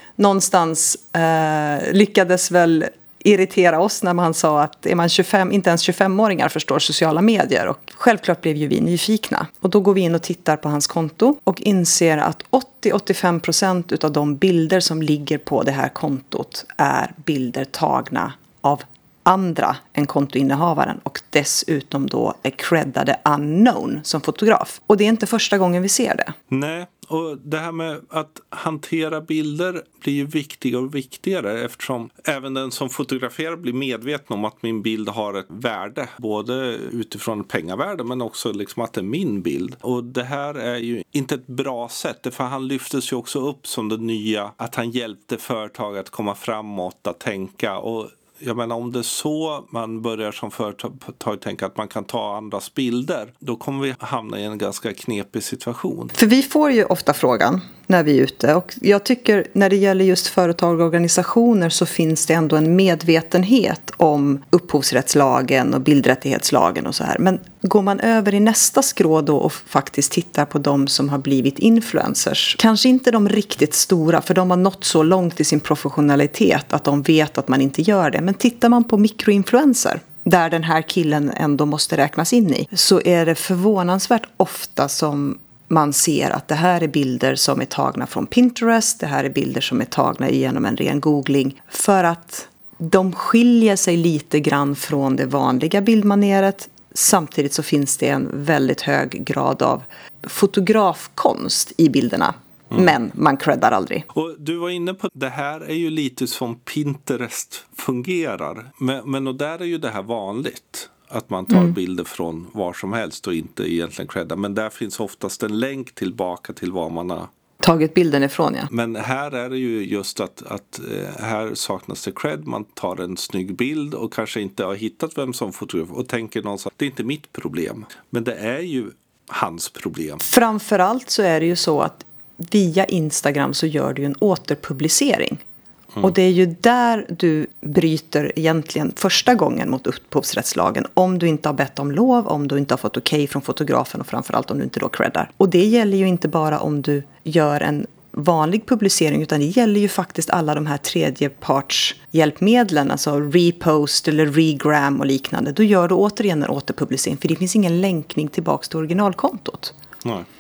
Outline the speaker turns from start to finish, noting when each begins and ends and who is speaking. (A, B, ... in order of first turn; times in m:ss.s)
0:00.2-0:26.3 A
0:26.5-0:56.1 B
0:56.1-1:44.1 A
1:44.1-1:57.3 B
1:51.5-1:51.8 A
1:57.6-1:58.7 A
1:58.7-2:10.2 B
2:10.2-2:15.4 A
2:16.0-2:39.7 A